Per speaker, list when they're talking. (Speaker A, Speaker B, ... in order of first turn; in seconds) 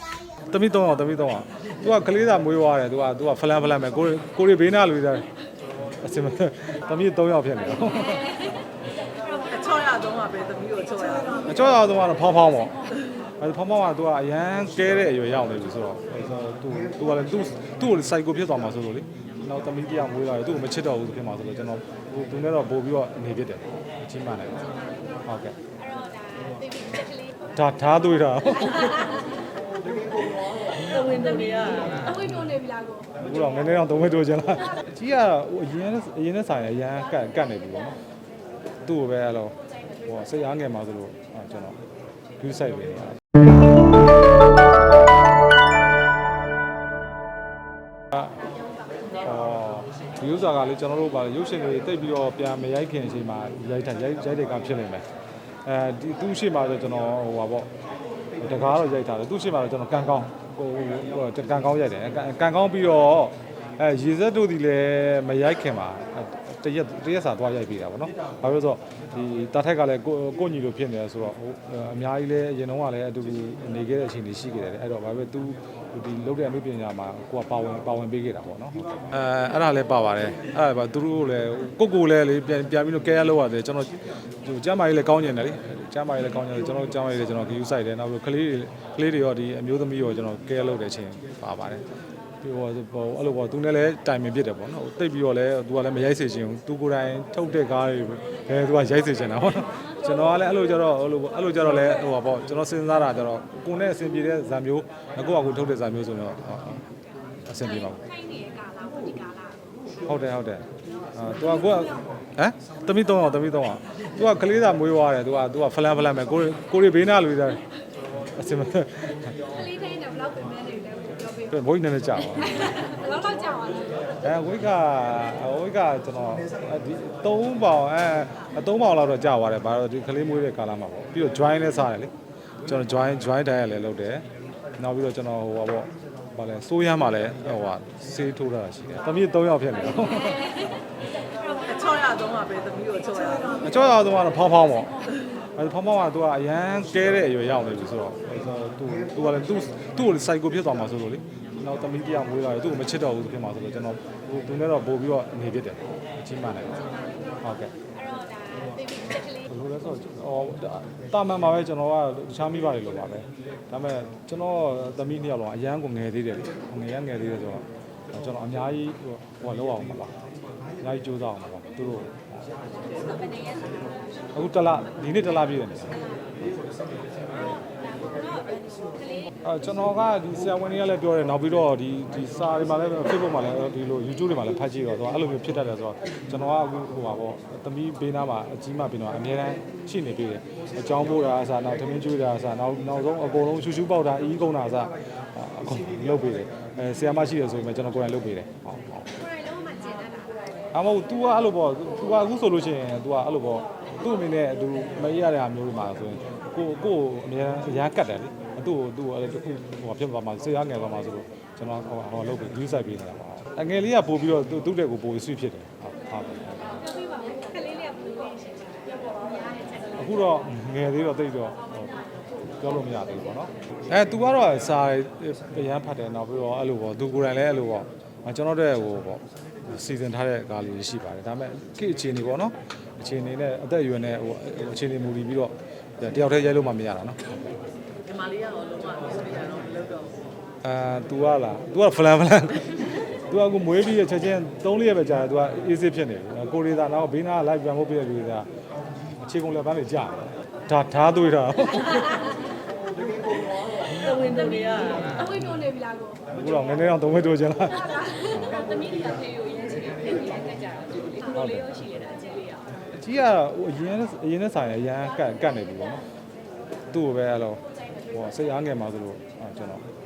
Speaker A: 0.4-5.3, 6.0-8.5, 11.5-12.8, 13.4-24.8, 25.3-25.6, 27.5-29.3, 32.3-38.0, 38.9-41.8, 42.4-43.2, 49.2-55.0, 55.6-57.7, 58.4-91.8, 92.4-106.8, 107.5-108.1, 110.0-117.6, 118.4-119.7, 121.5-123.0, 124.2-132.1, 132.6-134.3, 134.8-140.7, 143.6-145.0, 145.6-157.7, 159.3-170.1, 170.8-172.4, 174.3-176.1, 179.4-199.3, 200.7-217.0, 219.9-222.0, 222.5-237.4, 240.6-248.5, 249.2-252.4, 256.3-258.7, 261.3-261.9, 262.9-266.0, 266.9-269.8
Speaker B: 9.4-11.6, 30.1-32.3, 141.5-143.7, 238.1-240.2, 253.2-255.4, 260.0-260.3
Speaker C: 25.8-27.3, 32.4-33.1, 108.1-109.6, 119.6-121.5, 123.0-124.0, 157.9-159.4, 173.0-173.7, 178.0-179.3, 199.3-200.4, 216.9-219.6, 255.5-256.2, 258.6-262.5